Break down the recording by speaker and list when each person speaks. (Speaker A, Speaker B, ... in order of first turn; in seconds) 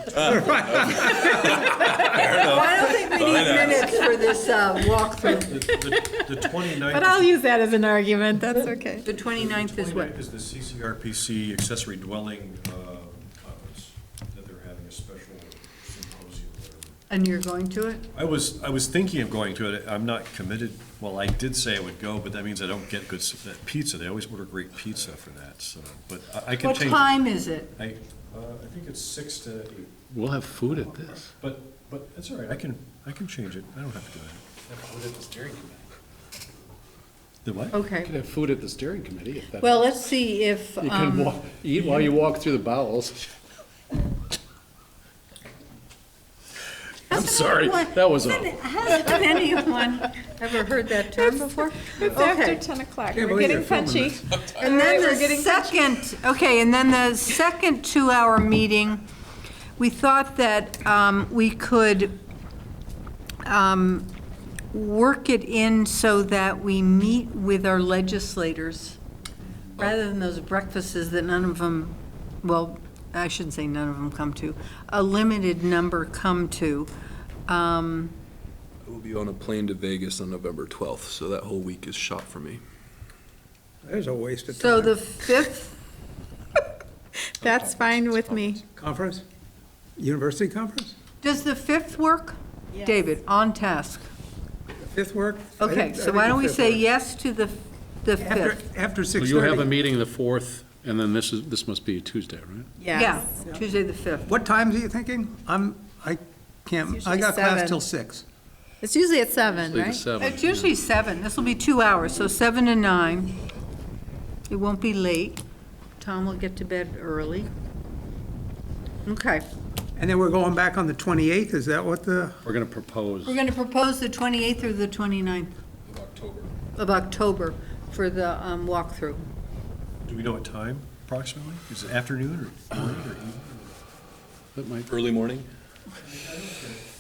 Speaker A: 0.1-2.4, 3.0-4.1, 78.8-82.6, 87.4-88.6, 125.9-126.5, 134.9-135.5
Speaker B: 0.3-1.3, 53.1-54.2, 83.8-85.0, 88.8-89.2, 90.0-91.0, 94.8-96.8, 98.2-99.7, 104.3-108.2, 120.0-122.4
Speaker C: 1.1-3.4, 5.2-7.4, 9.3-17.0, 18.1-27.2, 27.8-30.0, 31.4-35.3, 37.4-37.8, 130.1-133.7, 135.9-136.8
Speaker D: 2.2-5.6, 9.0-10.1, 17.1-18.1, 26.6-27.8, 37.7-38.1, 39.6-41.4, 47.1-52.6, 54.6-59.0, 59.8-62.2, 63.5-64.1, 64.7-69.0, 69.8-76.9, 77.5-78.2, 84.5-85.8, 91.2-94.1, 95.6-98.6, 102.9-104.3, 110.2-113.4, 114.5-115.4, 116.0-117.5, 119.0-119.4, 123.2-125.5, 126.8-129.2
Speaker E: 5.7-9.1, 51.9-55.8, 87.4-88.6, 102.8-103.3, 106.8-107.8, 108.8-110.0
Speaker F: 30.1-31.3, 34.7-35.7, 38.0-40.0, 40.8-43.2, 47.1-48.5, 99.2-102.7, 109.5-110.7, 122.4-123.4, 134.6-134.9